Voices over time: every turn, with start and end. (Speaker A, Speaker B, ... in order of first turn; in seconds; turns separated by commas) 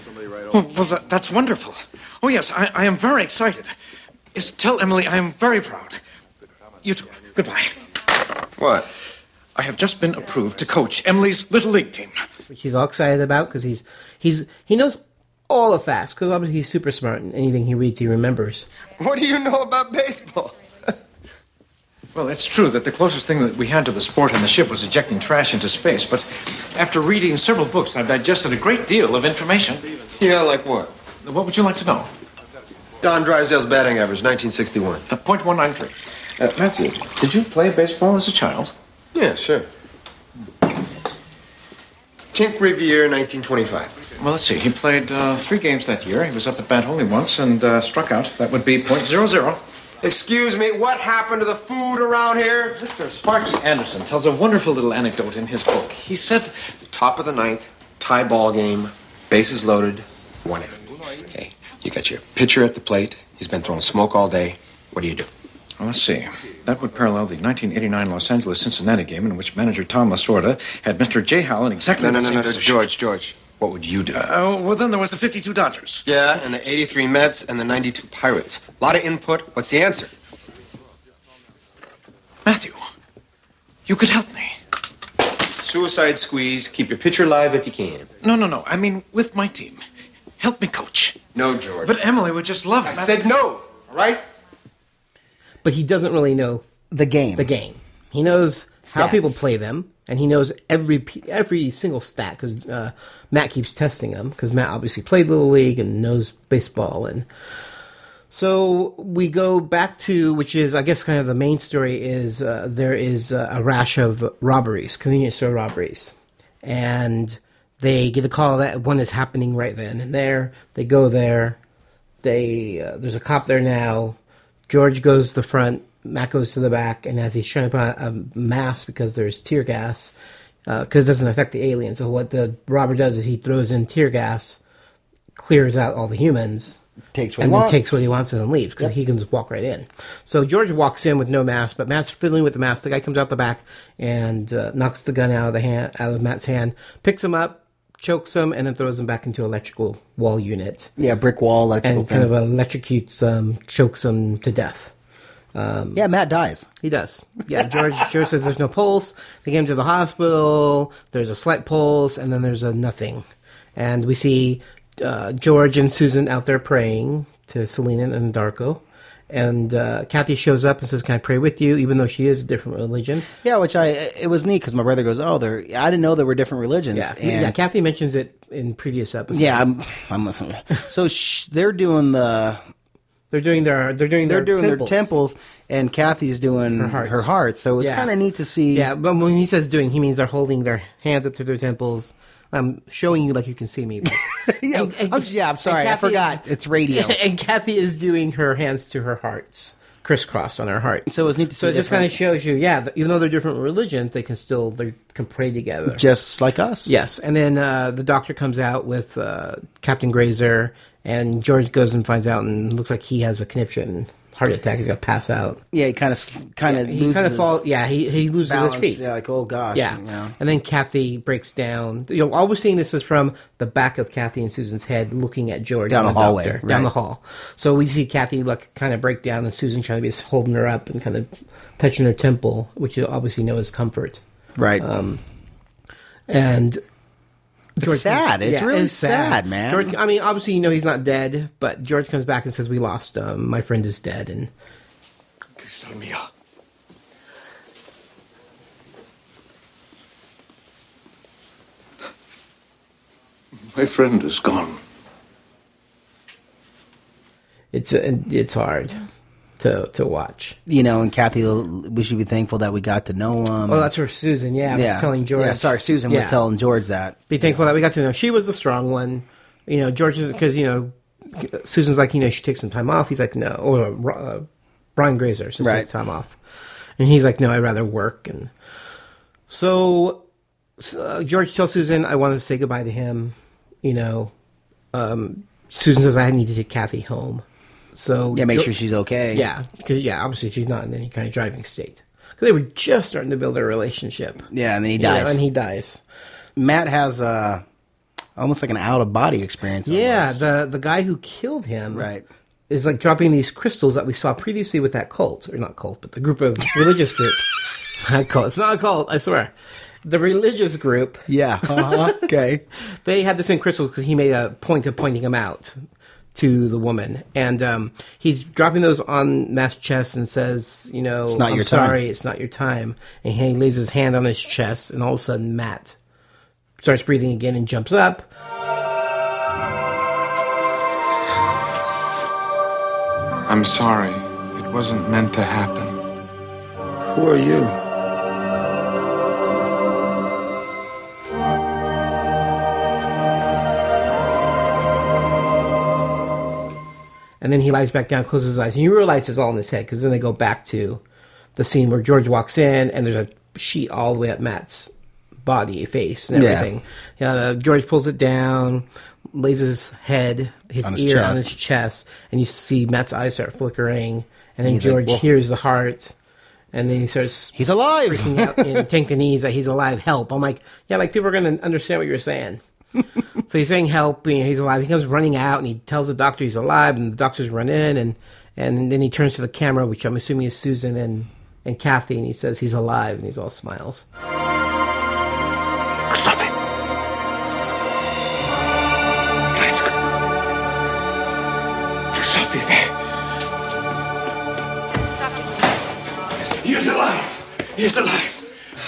Speaker A: 0.5-3.7, Speaker A: 4.3-6.0, Speaker A: 6.8-7.7, Speaker B: 8.6-8.9, Speaker A: 9.5-12.1, Speaker C: 12.5-18.7, Speaker B: 19.0-20.6, Speaker A: 22.1-29.8, Speaker B: 30.2-30.9, Speaker A: 31.2-32.1, Speaker B: 33.0-35.0, Speaker A: 35.1-38.7, Speaker B: 39.1-39.7, Speaker B: 42.3-44.0, Speaker A: 44.2-49.6, Speaker B: 50.0-52.8, Speaker A: 52.7-56.5, Speaker B: 56.9-65.3, Speaker A: 65.8-72.9, Speaker B: 72.0-74.2, Speaker A: 74.1-76.0, Speaker B: 76.0-80.1, Speaker A: 82.4-82.8, Speaker A: 83.8-84.6, Speaker B: 85.6-88.0, Speaker A: 88.2-89.8, Speaker A: 90.4-91.2, Speaker B: 91.3-91.9, Speaker A: 91.8-93.3, Speaker B: 92.8-94.2, Speaker C: 95.6-96.7, Speaker D: 96.9-97.5, Speaker C: 97.4-107.2, Speaker D: 98.9-99.4, Speaker C: 108.3-121.6, Speaker C: 122.2-124.2, Speaker C: 124.7-130.1, Speaker C: 130.7-134.6, Speaker C: 135.3-136.8, Speaker D: 137.1-137.9, Speaker C: 137.4-150.9, Speaker D: 151.0-152.3, Speaker C: 151.8-154.9, Speaker C: 155.5-156.0, Speaker D: 155.9-156.7, Speaker C: 156.8-163.2, Speaker C: 163.8-173.3, Speaker D: 173.4-177.6, Speaker C: 176.9-179.6, Speaker D: 179.3-182.6, Speaker C: 183.3-185.1, Speaker D: 184.2-188.9, Speaker C: 186.8-188.1, Speaker C: 188.7-206.0, Speaker D: 194.0-197.2, Speaker D: 201.1-202.2, Speaker D: 205.9-206.9, Speaker C: 206.8-215.6, Speaker D: 215.7-217.6, Speaker C: 216.7-219.1, Speaker D: 218.4-220.3, Speaker C: 219.7-234.2, Speaker D: 225.9-226.9, Speaker D: 234.6-234.8, Speaker C: 234.8-235.2, Speaker C: 236.3-236.8, Speaker D: 237.8-239.9, Speaker C: 237.8-244.5, Speaker A: 245.6-246.2, Speaker A: 253.7-254.8, Speaker C: 257.7-259.0, Speaker C: 259.6-260.6, Speaker D: 260.7-263.9, Speaker C: 263.7-266.4, Speaker D: 264.7-267.6, Speaker C: 267.3-276.4, Speaker D: 275.6-275.9, Speaker C: 277.0-278.5, Speaker C: 279.5-280.2, Speaker C: 280.8-284.3, Speaker C: 284.9-288.7, Speaker D: 288.3-289.5, Speaker C: 289.3-294.5, Speaker D: 294.5-295.4, Speaker C: 295.0-296.0, Speaker D: 296.6-297.6, Speaker D: 298.4-300.4, Speaker C: 299.8-302.1, Speaker D: 301.9-302.2, Speaker C: 302.7-307.4, Speaker C: 308.0-309.5, Speaker C: 310.0-312.2, Speaker D: 311.3-312.6, Speaker C: 312.9-315.8, Speaker C: 316.3-326.0, Speaker D: 321.3-322.0, Speaker C: 326.8-328.3, Speaker E: 333.5-335.9, Speaker B: 337.1-337.8, Speaker C: 347.4-351.0, Speaker C: 351.6-354.9, Speaker C: 355.4-366.1, Speaker D: 356.3-356.7, Speaker D: 360.8-361.5, Speaker D: 364.6-365.2, Speaker C: 366.7-372.6, Speaker D: 367.5-368.8, Speaker C: 373.5-384.1, Speaker A: 396.9-397.2